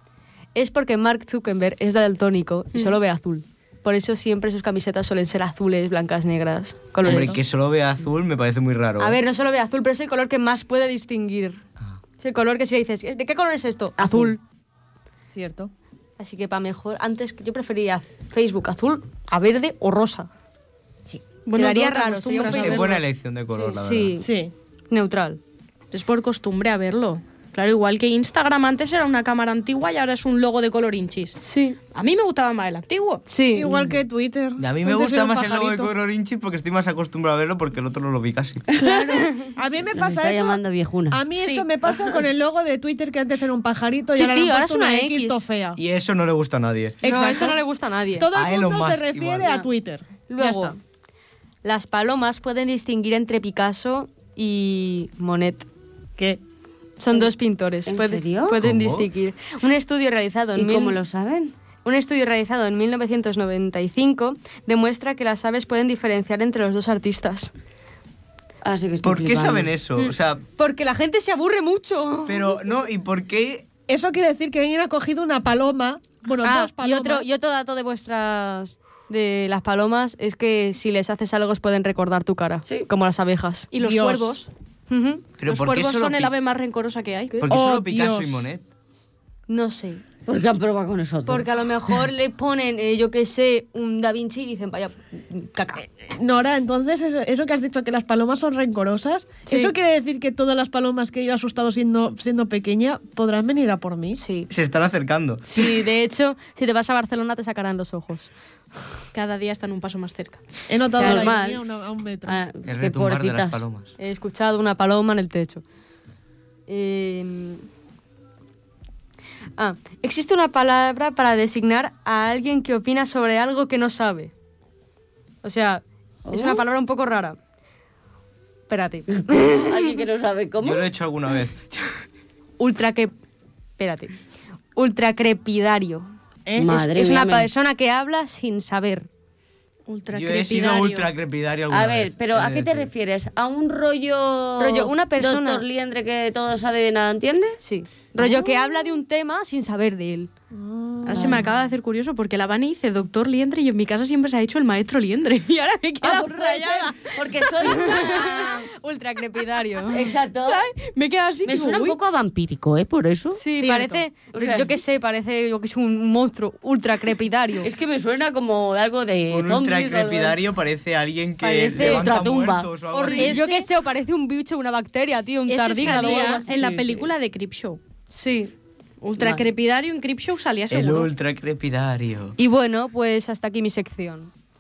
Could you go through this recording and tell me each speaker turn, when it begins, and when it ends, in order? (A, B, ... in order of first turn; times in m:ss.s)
0:00.6-0:07.4 A
0:07.0-0:09.2 B
0:09.0-0:11.6 A
0:12.2-0:14.4 A
0:14.0-0:14.3 C
0:15.4-0:15.7 D
0:16.2-0:20.3 A
0:21.4-0:23.0 E
0:21.6-0:23.0 A
0:22.5-0:24.2 B
0:23.5-0:24.3 A
0:24.2-0:24.5 D
0:24.9-0:25.4 A
0:25.9-0:33.2 E
0:31.4-0:31.8 A
0:33.3-0:33.9 A
0:33.5-0:35.9 D
0:34.6-0:38.7 B
0:38.7-0:39.4 C
0:38.8-0:39.4 E
0:39.1-0:39.5 A
0:39.6-0:45.8 D
0:39.9-0:41.2 C
0:41.4-0:42.2 A
0:44.1-0:45.5 A
0:45.8-0:47.0 B
0:47.0-0:47.6 D
0:47.0-0:48.3 A
0:48.2-0:50.7 D
0:48.3-0:49.6 B
0:50.3-0:50.8 A
0:51.6-0:55.7 A
0:57.0-1:01.0 A
0:57.9-0:58.6 C
0:58.6-0:59.1 B
1:00.6-1:01.6 C
1:01.8-1:07.5 A
1:08.6-1:09.7 C
1:09.0-1:10.4 B
1:10.0-1:12.5 A
1:12.3-1:13.7 B
1:13.9-1:17.3 D
1:16.4-1:23.7 A
1:23.7-1:24.5 E
1:23.8-1:24.4 D
1:24.9-1:25.3 A
1:25.4-1:26.4 B
1:25.4-1:27.4 E
1:27.4-1:28.6 B
1:27.5-1:28.4 D
1:29.5-1:30.0 A
1:30.3-1:31.5 C
1:31.3-1:35.8 A
1:35.8-1:44.2 D
1:39.5-1:39.7 A
1:44.2-1:44.5 A
1:44.5-1:45.6 B
1:45.5-1:48.3 A
1:49.1-1:50.4 E
1:50.7-1:52.4 D
1:51.0-1:51.3 A
1:51.0-1:51.6 C
1:52.3-1:53.6 C
1:52.6-1:53.9 B
1:54.0-1:55.6 A
1:56.7-1:57.6 A
1:59.6-2:04.3 A
2:05.4-2:07.4 A
2:06.3-2:06.6 C
2:08.7-2:10.0 A
2:09.5-2:10.9 C
2:10.6-2:11.8 B
2:12.6-2:13.1 A
2:13.8-2:14.1 A
2:14.8-2:16.1 A
2:16.5-2:16.7 D
2:16.6-2:17.5 C
2:16.7-2:19.1 A
2:19.9-2:21.1 E
2:20.1-2:22.9 B
2:21.7-2:27.6 C
2:24.6-2:25.6 A
2:27.6-2:30.3 A
2:28.2-2:29.0 C
2:30.5-2:31.7 D
2:31.0-2:38.4 E
2:31.2-2:31.4 A
2:36.0-2:38.7 C
2:37.6-2:40.1 A
2:39.9-2:40.7 C
2:40.4-2:42.0 E
2:41.4-2:43.4 C
2:43.4-2:47.7 A
2:43.6-2:44.0 D
2:44.3-2:44.8 C
2:47.6-2:50.4 C
2:49.3-2:53.4 B
2:51.4-2:52.1 A
2:51.7-2:52.7 C
2:52.9-2:56.5 A
2:53.0-2:53.6 E
2:55.5-2:57.8 E
2:55.8-2:57.1 C
2:58.1-2:58.5 A
2:59.0-3:01.1 E
2:59.2-2:59.5 C
3:00.7-3:02.4 B
3:02.4-3:04.3 A